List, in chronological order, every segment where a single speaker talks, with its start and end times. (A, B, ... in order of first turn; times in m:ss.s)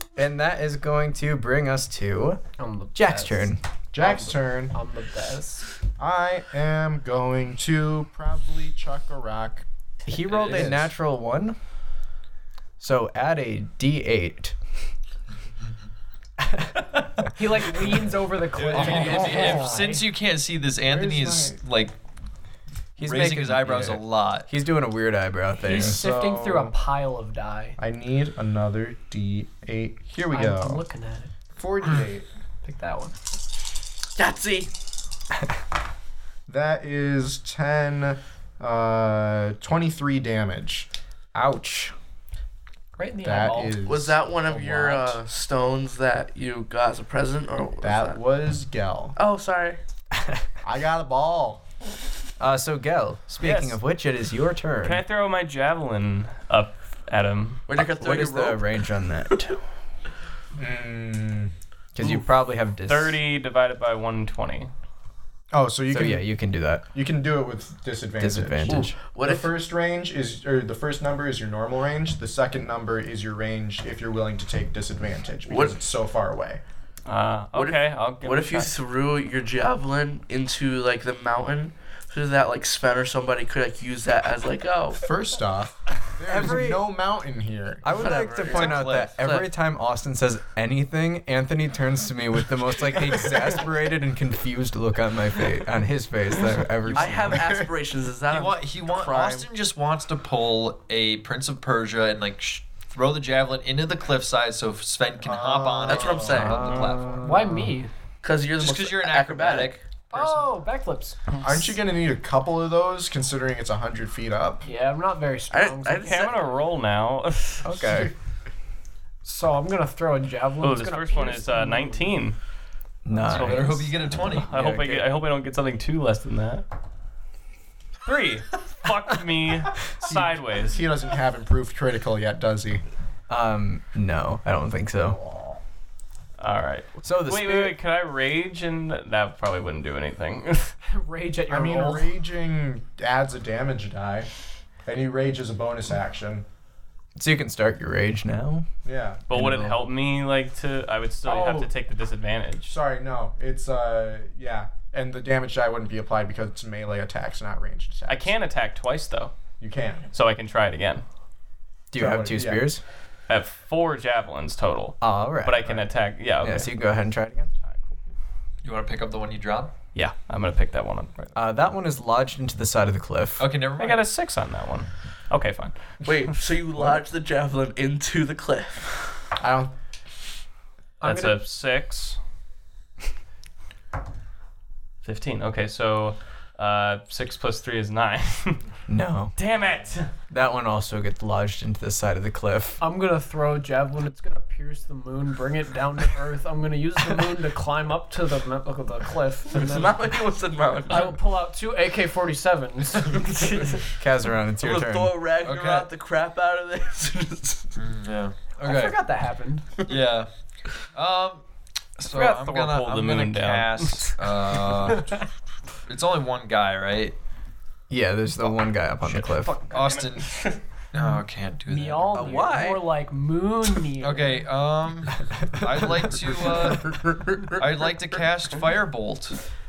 0:00.2-0:02.4 A
0:02.6-0:05.7 B
0:02.9-0:03.6 A
0:03.9-0:04.8 C
0:06.0-0:09.6 C
0:10.1-0:11.6 A
0:10.3-0:10.7 D
0:10.5-0:10.8 C
0:12.8-0:14.6 A
0:16.4-0:16.7 A
0:17.3-0:20.1 B
0:18.5-0:22.0 D
0:18.8-0:19.7 C
0:20.8-0:21.6 C
0:23.0-0:26.0 A
0:23.0-0:24.5 D
0:25.6-0:27.8 B
0:25.7-0:26.8 C
0:27.8-0:30.8 C
0:30.3-0:31.3 B
0:31.6-0:32.3 C
0:32.6-0:33.2 B
0:34.1-0:34.7 E
0:36.5-0:40.9 C
0:41.4-0:41.9 A
0:43.0-0:43.8 B
0:43.2-0:45.2 C
0:43.8-0:48.2 E
0:47.8-0:49.2 C
0:49.2-0:49.8 E
0:50.2-0:50.4 A
0:50.6-0:51.6 C
0:52.4-0:55.0 A
0:53.4-0:53.7 F
0:54.8-0:57.6 F
0:57.7-0:58.8 E
0:57.8-0:59.6 A
0:59.3-0:59.6 E
1:00.6-1:01.5 C
1:02.0-1:03.2 A
1:02.9-1:04.7 F
1:05.5-1:06.3 C
1:05.9-1:06.8 A
1:06.9-1:16.6 C
1:08.2-1:08.9 A
1:08.7-1:09.5 E
1:15.5-1:15.8 E
1:17.1-1:18.7 F
1:17.5-1:25.0 E
1:25.0-1:28.1 C
1:26.3-1:26.8 A
1:27.8-1:37.5 A
1:27.9-1:29.5 E
1:28.4-1:29.2 D
1:36.9-1:39.5 E
1:37.3-1:37.7 C
1:38.3-1:47.2 D
1:45.2-1:46.6 C
1:45.9-1:47.0 E
1:46.3-1:47.7 A
1:47.2-1:47.9 B
1:48.2-1:49.8 E
1:48.6-1:49.8 D
1:50.1-1:51.2 B
1:51.4-1:54.7 C
1:54.6-1:56.1 B
1:55.5-1:56.5 E
1:56.0-1:57.7 F
1:57.6-1:58.1 A
1:57.8-1:58.1 C
1:59.2-2:02.1 B
2:00.6-2:02.4 F
2:03.0-2:05.2 A
2:03.2-2:06.6 F
2:03.3-2:04.6 D
2:08.0-2:10.8 F
2:10.0-2:12.8 C
2:13.3-2:15.2 A
2:16.4-2:20.7 F
2:17.0-2:17.8 A
2:20.8-2:22.1 B
2:21.5-2:24.3 C
2:24.9-2:26.4 C
2:27.2-2:28.7 A
2:28.8-2:29.3 C
2:29.3-2:32.8 F
2:29.3-2:29.8 A
2:31.3-2:31.7 B
2:31.3-2:31.6 C
2:32.7-2:38.3 C
2:38.1-2:39.3 F
2:39.6-2:40.1 C
2:40.1-2:41.0 F
2:41.9-2:42.8 A
2:41.9-2:42.6 C
2:43.3-2:46.7 F
2:45.0-2:45.8 A
2:46.4-2:47.5 A
2:47.6-2:48.1 F
2:48.6-2:49.7 D
2:50.0-2:51.3 F
2:51.4-2:53.4 A
2:53.4-2:54.0 D
2:53.8-2:55.7 F
2:56.0-2:59.1 E
2:59.4-2:59.7 C
3:01.0-3:01.4 B
3:01.0-3:02.2 F
3:05.0-3:08.6 F
3:08.9-3:09.3 A
3:09.4-3:10.1 F
3:10.3-3:12.8 A
3:12.8-3:20.0 B
3:19.5-3:21.1 E
3:20.9-3:23.8 B
3:23.2-3:23.8 E
3:24.0-3:25.2 A
3:24.6-3:27.7 E
3:25.4-3:25.9 D
3:27.8-3:29.0 D
3:28.6-3:29.7 B
3:29.9-3:30.3 D
3:30.9-3:31.4 D
3:32.0-3:35.2 D
3:32.0-3:34.2 F
3:35.9-3:37.2 D
3:37.9-3:39.6 A
3:39.7-3:42.6 D
3:39.7-3:40.0 F
3:41.7-3:44.5 B
3:42.1-3:42.8 E
3:44.0-3:47.0 D
3:46.9-3:47.6 C
3:47.5-3:49.4 D